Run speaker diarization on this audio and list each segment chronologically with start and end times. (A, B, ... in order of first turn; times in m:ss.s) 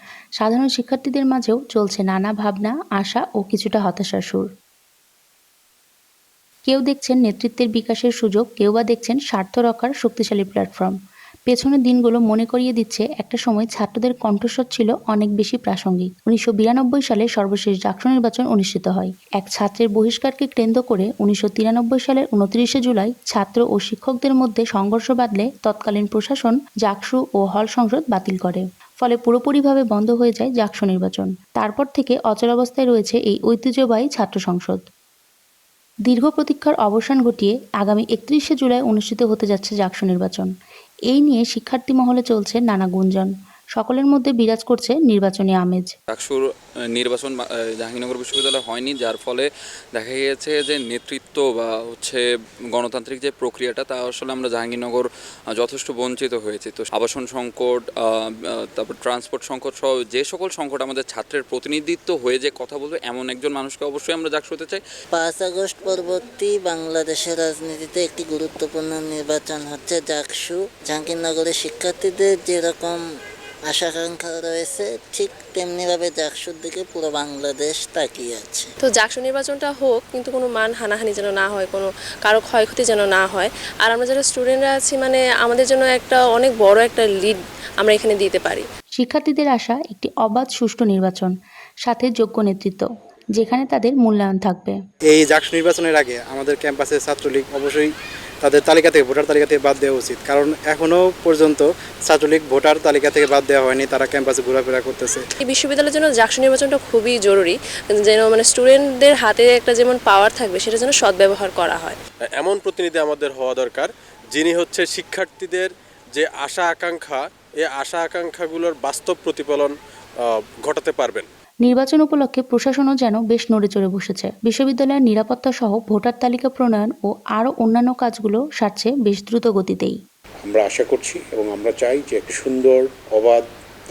0:00.4-0:04.5 A
0:06.6-0:10.9 A
0:11.5-0:34.8 A
0:36.1-0:40.5 A
0:41.1-0:45.9 A
0:46.1-0:52.2 B
0:52.7-1:04.8 B
1:05.1-1:13.0 C
1:13.7-1:18.7 C
1:18.8-1:28.6 D
1:29.0-1:31.3 A
1:31.8-1:34.8 A
1:35.1-1:37.9 E
1:38.4-1:45.2 E
1:45.4-1:52.0 D
1:52.3-2:01.3 F
2:01.6-2:10.0 A
2:10.4-2:13.4 G